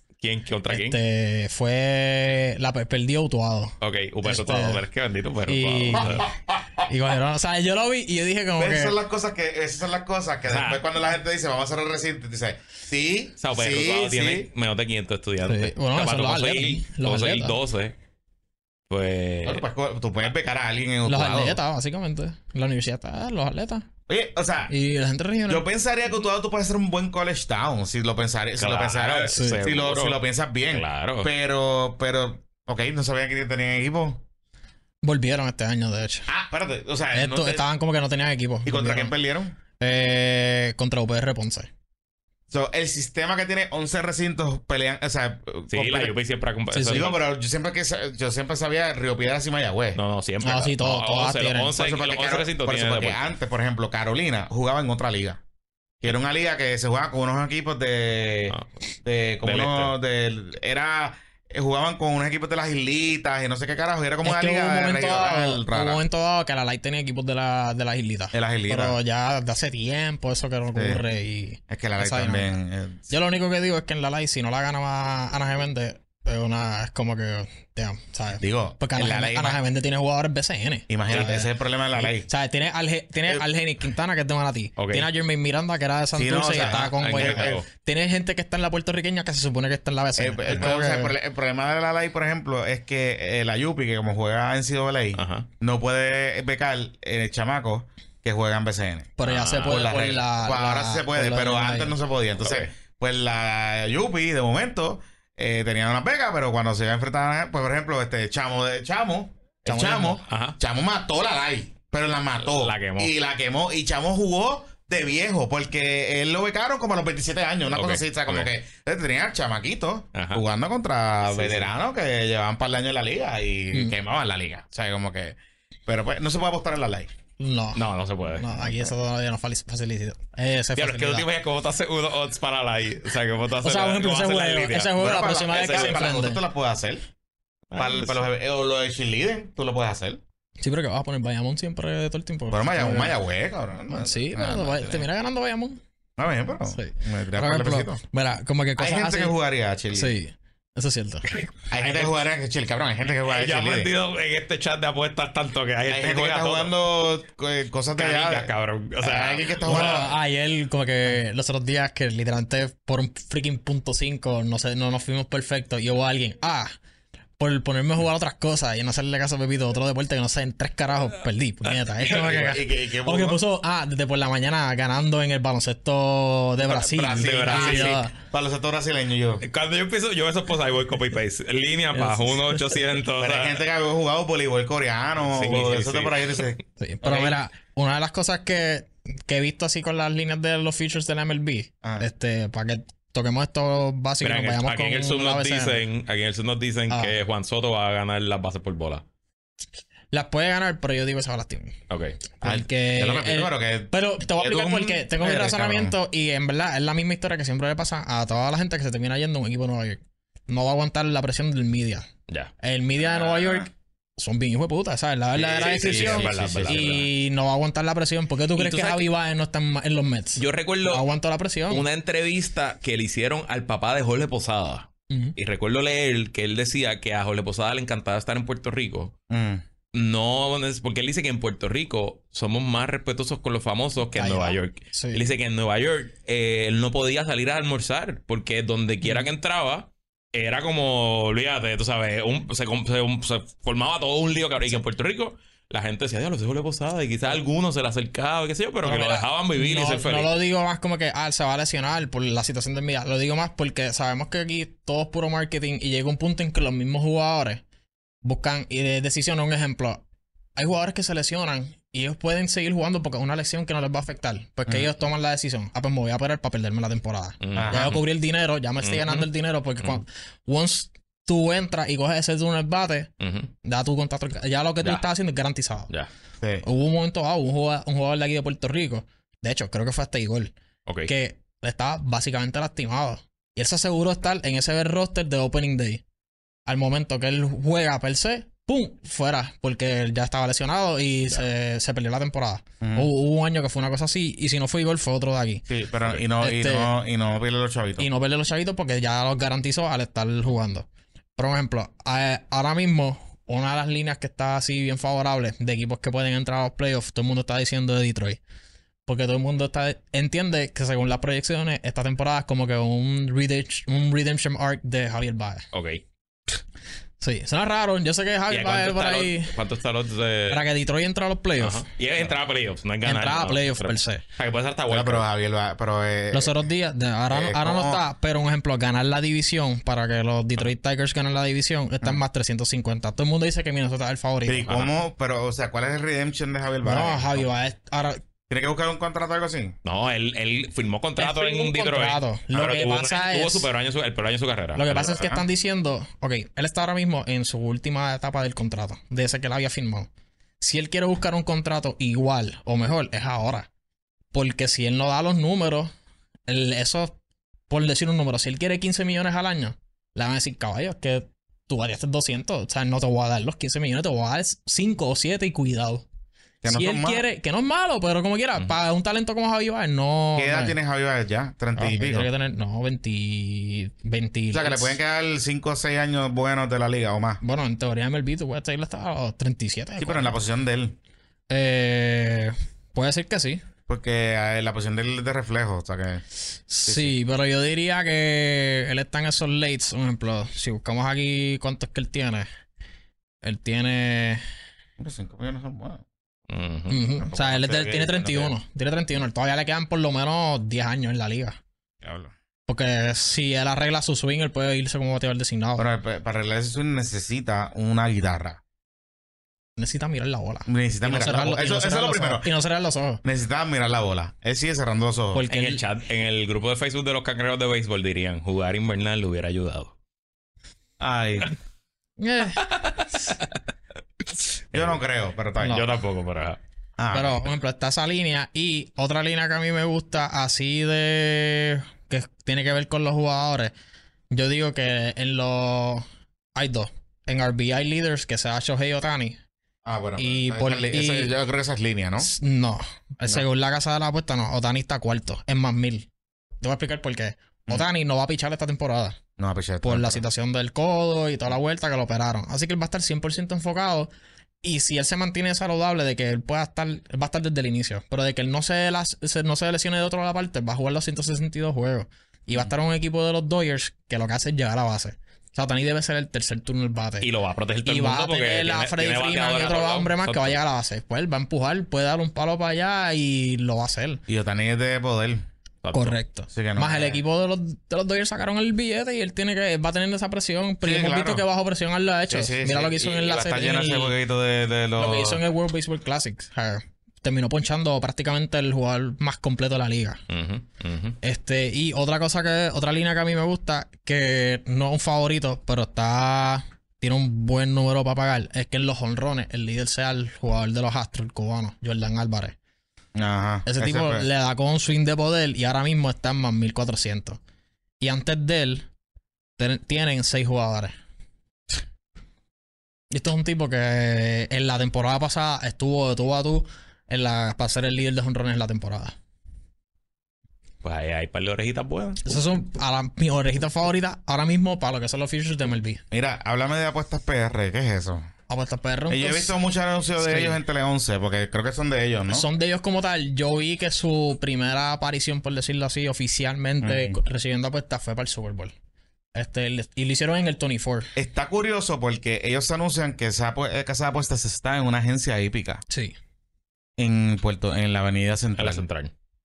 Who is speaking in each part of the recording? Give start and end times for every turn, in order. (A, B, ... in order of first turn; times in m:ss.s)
0:00.2-0:01.0 A
0:00.7-0:04.8 B
0:03.8-0:06.2 A
0:05.5-0:06.2 B
0:06.0-0:06.8 C
0:06.9-0:09.0 B
0:08.6-0:14.5 C
0:10.5-0:10.8 A
0:13.4-0:17.9 A
0:15.4-0:17.6 B
0:18.9-0:19.6 A
0:19.4-0:21.6 C
0:21.0-0:23.9 B
0:24.1-0:24.7 C
0:24.7-0:25.6 B
0:25.5-0:34.2 C
0:28.6-0:30.2 A
0:29.3-0:29.6 B
0:30.7-0:31.3 A
0:35.0-0:36.3 B
0:36.3-0:37.7 C
0:37.1-0:39.1 B
0:38.6-0:39.6 C
0:39.8-0:41.7 B
0:42.5-0:46.1 C
0:45.7-0:47.2 A
0:46.7-0:47.1 B
0:46.8-0:50.0 C
0:49.9-0:53.2 A
0:50.4-0:51.7 B
0:51.7-0:55.4 C
0:56.0-1:06.0 C
0:59.4-0:59.9 A
1:04.2-1:12.5 B
1:08.3-1:09.0 C
1:10.7-1:11.0 C
1:11.7-1:13.1 C
1:13.1-1:21.4 B
1:18.4-1:19.6 C
1:20.9-1:22.3 C
1:21.1-1:21.4 A
1:22.2-1:31.1 B
1:24.8-1:25.1 A
1:26.2-1:27.6 C
1:26.6-1:27.6 A
1:30.2-2:07.1 C
1:35.2-1:35.5 A
1:39.2-1:42.0 B
1:39.2-1:39.9 A
1:42.4-1:42.7 A
1:49.6-1:50.2 B
1:50.2-1:50.6 A
1:52.5-1:53.1 A
1:57.7-1:58.5 A
2:00.1-2:00.4 A
2:01.3-2:01.7 A
2:07.4-2:07.8 B
2:07.7-2:08.9 A
2:08.4-2:11.3 B
2:10.8-2:14.9 A
2:13.6-2:16.4 B
2:15.0-2:17.0 C
2:15.5-2:16.1 A
2:17.7-2:18.2 A
2:17.8-2:20.2 C
2:20.6-2:23.1 B
2:22.5-2:25.0 C
2:23.9-2:25.8 B
2:26.2-2:28.0 C
2:26.7-2:29.3 B
2:28.8-2:30.2 C
2:29.9-2:31.3 B
2:31.3-2:32.1 A
2:31.7-2:33.9 C
2:33.3-2:36.7 A
2:35.9-2:40.1 C
2:38.0-2:40.1 A
2:39.6-2:46.7 B
2:47.4-2:58.1 B
2:52.0-2:53.4 C
2:56.7-2:59.4 C
2:56.9-2:58.0 A
2:59.4-3:03.6 A
3:01.9-3:02.7 B
3:03.2-3:07.4 C
3:05.2-3:06.5 A
3:06.8-3:15.8 B
3:14.2-3:19.0 A
3:16.9-3:17.1 B
3:20.1-3:21.8 B
3:21.9-3:22.2 A
3:22.4-3:32.1 B
3:22.4-3:26.0 C
3:32.6-3:41.8 B
3:33.1-3:33.6 C
3:35.4-3:37.0 C
3:35.4-3:37.1 A
3:38.6-3:39.1 A
3:40.4-3:41.0 A
3:41.7-3:49.1 A
3:45.1-3:45.4 B
3:49.3-3:49.6 C
3:49.9-4:10.3 A
3:54.1-3:55.2 B
3:59.0-3:59.3 B
4:08.8-4:17.6 B
4:18.2-4:20.0 B
4:20.6-4:33.1 B
4:27.4-4:28.0 A
4:27.5-4:28.0 C
4:28.8-4:29.3 A
4:33.2-4:33.5 A
4:33.6-4:35.9 B
4:36.6-4:40.5 B
4:40.8-4:41.1 A
4:41.1-4:46.0 B
4:46.7-4:55.6 B
4:52.8-4:53.1 C
4:55.7-4:58.1 C
4:56.4-4:56.9 B
4:58.0-5:08.4 B
5:09.0-5:15.7 B
5:15.7-5:16.0 A
5:17.2-5:19.5 B
5:18.5-5:20.6 A
5:20.5-5:21.8 B
5:21.6-5:25.2 A
5:23.0-5:24.2 B
5:24.9-5:26.6 C
5:26.3-5:34.7 B
5:27.3-5:28.0 C
5:34.4-5:37.5 C
5:36.8-5:38.2 B
5:38.5-5:39.7 C
5:39.8-5:45.3 A
5:41.2-5:43.7 B
5:44.7-5:50.1 B
5:45.0-5:45.4 C
5:50.6-5:53.7 B
5:54.3-5:55.9 B
5:56.5-5:57.2 B
5:57.7-6:06.0 B
6:06.6-6:07.2 C
6:06.6-6:10.8 B
6:10.4-6:12.3 C
6:11.8-6:15.0 B
6:14.5-6:17.4 C
6:17.4-6:20.4 B
6:20.0-6:21.0 C
6:21.5-6:23.6 B
6:23.9-6:26.2 C
6:26.7-6:32.5 B
6:26.8-6:27.1 C
6:33.4-6:34.4 B
6:35.0-6:36.0 C
6:36.5-6:37.0 A
6:36.9-6:41.6 B
6:37.2-6:38.5 C
6:42.0-6:42.3 C
6:42.7-6:45.9 B
6:45.8-6:48.6 C
6:49.8-6:53.2 B
6:50.6-6:52.5 C
6:53.2-6:55.4 C
6:55.3-6:55.8 B
6:55.5-6:59.9 A
7:01.0-7:01.5 C
7:02.2-7:02.7 B
7:02.6-7:03.5 A
7:04.7-7:05.0 A
7:04.7-7:05.8 C
7:05.6-7:06.6 A
7:07.0-7:07.5 C
7:07.1-7:13.7 B
7:14.3-7:16.0 B
7:16.6-7:19.4 B
7:19.8-7:22.3 C
7:20.2-7:21.3 B
7:22.2-7:26.1 B
7:26.6-7:29.2 B
7:29.4-7:30.2 C
7:29.8-7:34.1 B
7:34.6-7:47.3 B
7:47.2-7:50.6 A
7:47.8-7:54.2 B
7:54.3-7:55.4 C
7:55.8-7:56.2 A
7:55.9-8:04.1 B
7:56.5-7:57.2 C
8:00.8-8:01.4 C
8:02.3-8:05.4 C
8:05.0-8:10.2 B
8:10.3-8:11.2 A
8:11.2-8:22.6 B
8:23.1-8:24.3 C
8:23.6-8:27.4 B
8:28.0-8:28.9 B
8:29.6-8:30.9 B
8:33.1-8:39.2 B
8:40.8-8:42.2 A
8:42.2-8:46.0 B
8:46.1-8:48.3 C
8:48.5-8:49.5 B
8:49.1-8:52.5 C
8:50.2-8:50.6 B
8:52.3-8:58.7 B
8:56.8-8:57.2 C
8:59.3-9:01.1 B
9:01.1-9:05.8 C
9:05.9-9:06.1 B
9:07.0-9:08.8 C
9:08.6-9:09.1 A